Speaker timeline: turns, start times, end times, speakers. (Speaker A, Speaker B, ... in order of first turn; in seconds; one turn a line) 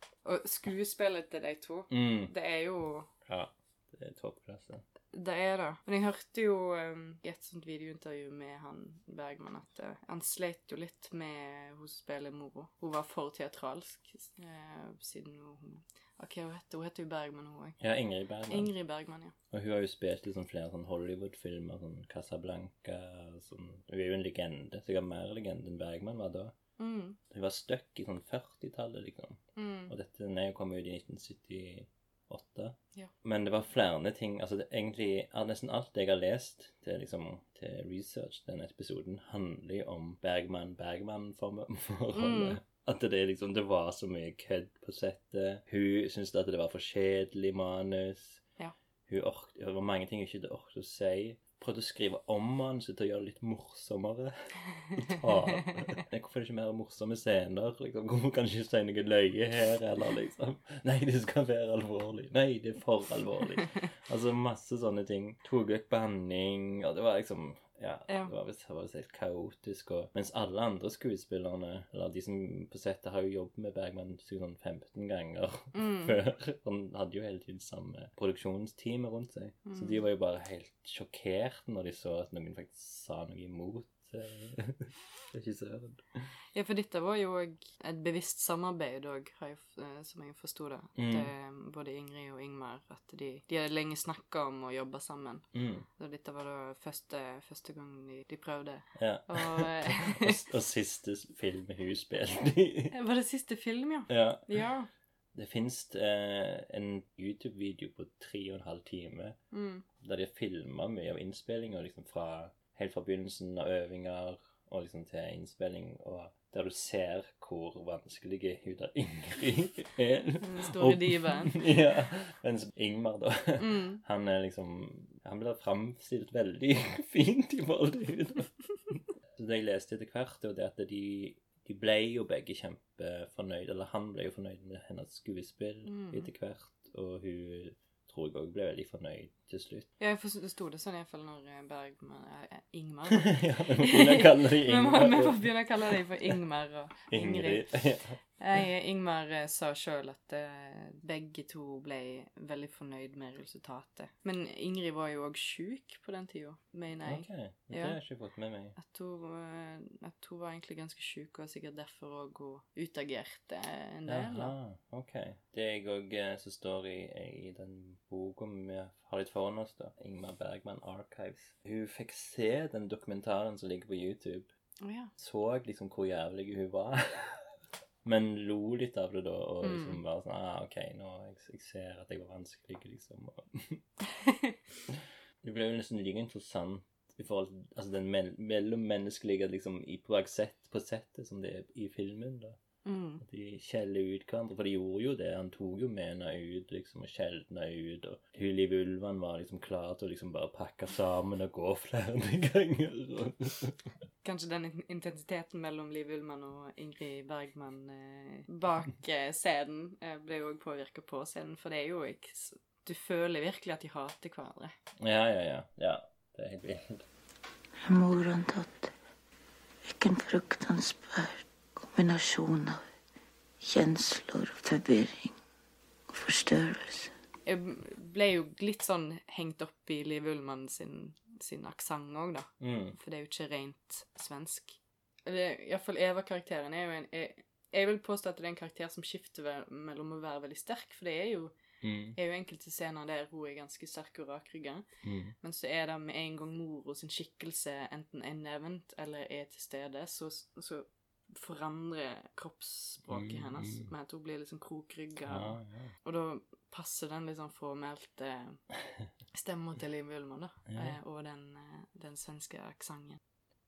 Speaker A: 0.2-3.1
Speaker B: 1.9-2.3
Speaker B: 3.2-4.8
Speaker A: 5.1-17.8
Speaker B: 17.8-18.7
Speaker A: 18.5-19.3
Speaker B: 19.5-26.5
Speaker A: 26.8-27.2
Speaker B: 27.3-48.4
Speaker A: 29.6-29.9
Speaker A: 42.1-42.6
Speaker B: 49.1-54.3
Speaker B: 54.9-86.2
Speaker A: 55.0-55.9
Speaker A: 68.1-68.3
Speaker A: 75.7-76.2
Speaker A: 79.7-80.0
Speaker A: 86.5-95.5
Speaker B: 91.0-91.3
Speaker B: 95.5-95.9
Speaker A: 96.0-100.4
Speaker B: 99.0-102.9
Speaker A: 102.9-104.9
Speaker B: 104.1-104.6
Speaker B: 105.3-109.4
Speaker A: 109.5-109.8
Speaker B: 110.0-128.5
Speaker A: 120.4-121.7
Speaker A: 123.6-124.0
Speaker B: 129.3-139.9
Speaker A: 135.9-136.3
Speaker A: 140.0-147.8
Speaker B: 143.1-146.4
Speaker B: 147.1-148.2
Speaker A: 148.4-158.0
Speaker B: 157.1-158.8
Speaker A: 158.8-164.6
Speaker B: 164.1-174.5
Speaker A: 174.8-175.1
Speaker B: 175.2-177.5
Speaker B: 178.0-183.8
Speaker A: 179.6-180.0
Speaker A: 184.2-184.6
Speaker B: 184.9-192.6
Speaker A: 192.8-193.2
Speaker B: 193.2-203.8
Speaker A: 204.2-214.7
Speaker B: 215.0-217.1
Speaker C: 217.8-218.9
Speaker C: 219.8-222.8
Speaker C: 223.6-225.4
Speaker C: 226.1-227.1
Speaker A: 227.4-241.6
Speaker B: 232.6-233.0
Speaker B: 241.8-242.2
Speaker A: 242.2-244.8
Speaker B: 245.0-245.3
Speaker A: 245.4-258.6
Speaker B: 253.1-253.9
Speaker B: 255.3-255.9
Speaker A: 259.3-263.2
Speaker B: 260.7-260.9